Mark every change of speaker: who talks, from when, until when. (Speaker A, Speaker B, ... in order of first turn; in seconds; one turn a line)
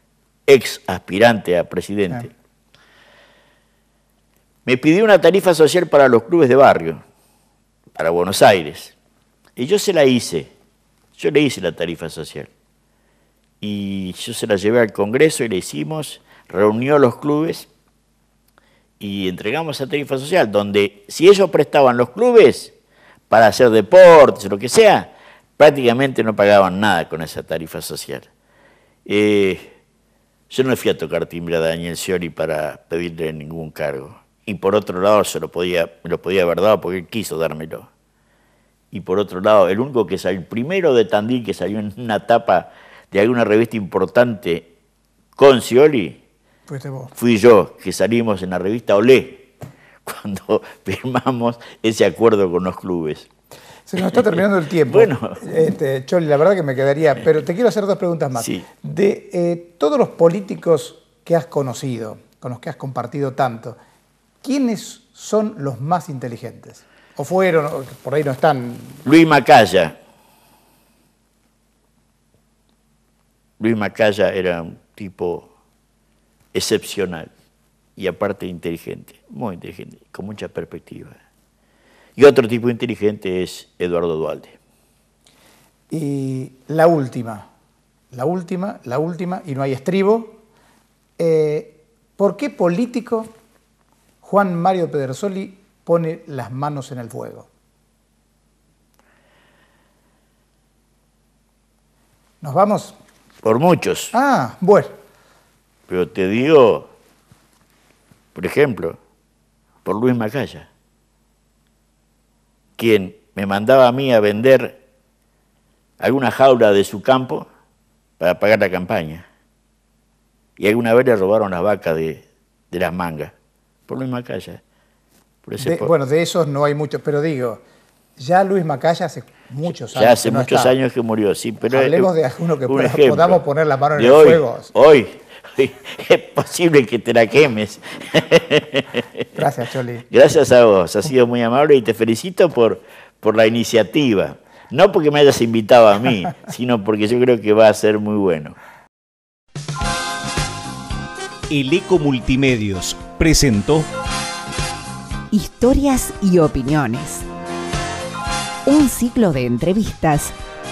Speaker A: 0.5-2.3
Speaker A: 4.7-7.0
Speaker A: 8.0-8.9
Speaker A: 9.6-10.5
Speaker A: 11.2-12.5
Speaker A: 13.6-17.7
Speaker A: 19.0-22.7
Speaker A: 23.3-28.3
Speaker A: 29.1-29.7
Speaker A: 30.5-37.9
Speaker A: 38.9-44.7
Speaker A: 45.4-46.2
Speaker B: 46.7-47.1
Speaker A: 47.1-49.5
Speaker A: 50.0-53.3
Speaker B: 53.9-63.8
Speaker A: 54.9-55.4
Speaker A: 58.4-58.6
Speaker B: 64.4-69.0
Speaker A: 69.0-70.0
Speaker A: 73.6-75.5
Speaker A: 76.5-77.3
Speaker A: 78.0-81.2
Speaker A: 82.2-84.5
Speaker B: 85.9-87.5
Speaker B: 88.1-90.4
Speaker B: 91.2-93.3
Speaker B: 94.2-97.5
Speaker B: 102.4-103.0
Speaker A: 103.4-104.1
Speaker B: 104.1-105.0
Speaker A: 105.9-106.9
Speaker A: 108.3-109.0
Speaker A: 109.8-110.7
Speaker A: 112.8-114.8
Speaker A: 116.0-117.5
Speaker A: 118.2-119.2
Speaker A: 120.6-123.3
Speaker A: 123.9-124.6
Speaker A: 125.4-125.9
Speaker B: 125.6-127.6
Speaker B: 128.2-130.7
Speaker A: 129.9-132.1
Speaker B: 131.7-134.7
Speaker A: 132.7-133.4
Speaker A: 133.9-139.3
Speaker B: 139.3-140.1
Speaker A: 140.1-148.6
Speaker C: 151.5-153.9
Speaker D: 155.3-157.2
Speaker D: 158.7-160.3